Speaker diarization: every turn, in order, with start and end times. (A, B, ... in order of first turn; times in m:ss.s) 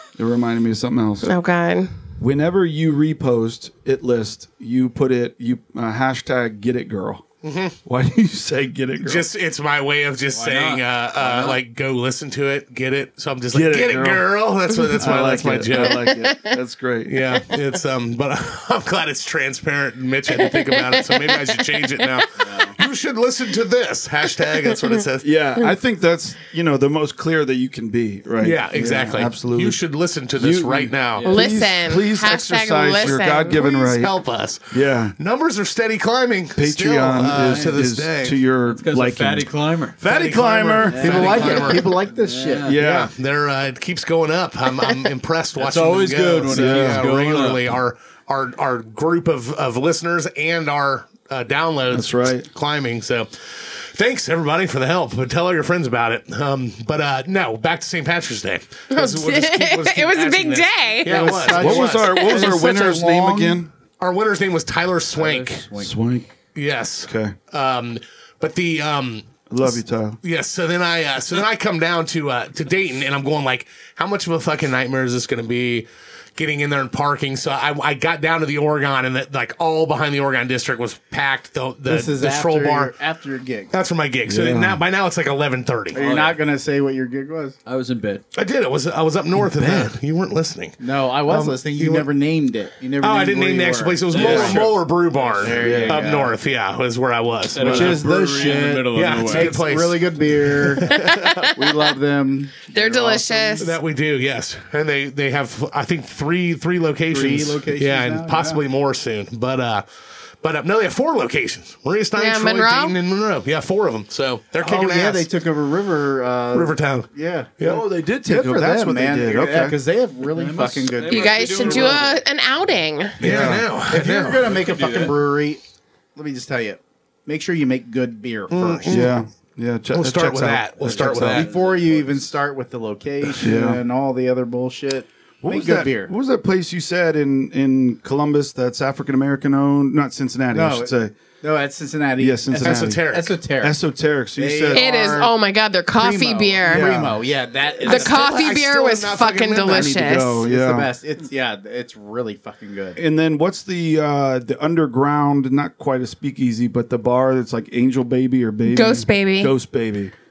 0:00.2-0:01.3 A
0:01.2-0:01.9 B
0:02.2-0:07.2 A
0:07.4-0:07.8 C
0:07.8-0:09.3 A
0:09.0-0:16.1 C
0:10.3-0:11.6 D
0:13.5-0:14.3 A
0:15.0-0:17.2 A
0:15.8-0:16.6 B
0:17.1-0:25.4 C
0:20.3-0:22.1 B
0:22.4-0:22.7 D
0:25.2-0:29.8 A
0:28.4-0:31.3 C
0:30.4-0:34.1 A
0:31.2-0:31.4 D
0:31.2-0:33.6 B
0:33.0-0:38.4 C
0:34.7-0:35.1 A
0:36.6-0:41.3 A
0:37.3-0:37.7 D
0:38.6-0:40.0 D
0:40.0-0:42.0 C
0:40.8-0:42.8 D
0:41.0-0:42.8 E
0:42.6-0:43.1 A
0:42.7-1:02.2 C
0:45.6-0:47.7 D
0:46.5-0:47.1 A
0:51.9-0:52.5 A
0:58.9-1:01.5 B
1:01.0-1:03.6 E
1:01.5-1:03.7 A
1:04.0-1:05.6 C
1:05.2-1:05.6 D
1:05.6-1:05.9 E
1:05.8-1:06.3 A
1:06.5-1:22.9 C
1:07.0-1:07.4 A
1:09.5-1:10.2 A
1:21.9-1:23.7 E
1:23.7-1:26.0 C
1:24.3-1:24.8 A
1:25.9-1:27.6 E
1:25.9-1:26.4 D
1:27.6-1:28.2 D
1:28.3-1:32.1 C
1:29.3-1:29.9 A
1:30.8-1:34.7 E
1:33.0-1:38.0 C
1:34.1-1:36.1 D
1:34.2-1:34.5 A
1:35.3-1:36.3 E
1:35.5-1:36.0 A
1:37.5-1:39.7 D
1:37.6-1:43.7 E
1:38.9-1:41.5 C
1:40.8-1:41.9 B
1:42.7-1:43.7 B
1:43.6-1:49.8 C
1:47.1-1:48.6 E
1:50.4-1:55.3 C
1:52.2-1:53.0 B
1:54.6-2:02.1 E
1:56.5-1:57.8 C
1:57.6-1:59.8 A
2:00.2-2:02.2 D
2:01.1-2:03.2 B
2:03.2-2:03.7 A
2:03.2-2:04.5 C
2:03.3-2:05.6 E
2:04.4-2:05.2 D
2:06.1-2:09.1 E
2:08.5-2:09.1 C
2:08.8-2:11.4 A
2:09.9-2:11.5 C
2:10.9-2:12.3 D
2:11.0-2:16.1 E
2:13.4-2:13.8 A
2:15.4-2:21.1 A
2:20.5-2:23.8 E
2:22.2-2:23.0 A
2:22.6-2:23.4 C
2:23.6-2:24.8 A
2:24.4-2:25.3 E
2:24.7-2:26.9 B
2:26.0-2:28.4 E
2:26.6-2:27.2 A
2:27.8-2:30.0 C
2:27.8-2:30.4 B
2:29.6-2:30.9 A
2:30.4-2:33.0 E
2:33.0-2:40.1 A
2:38.7-2:39.5 B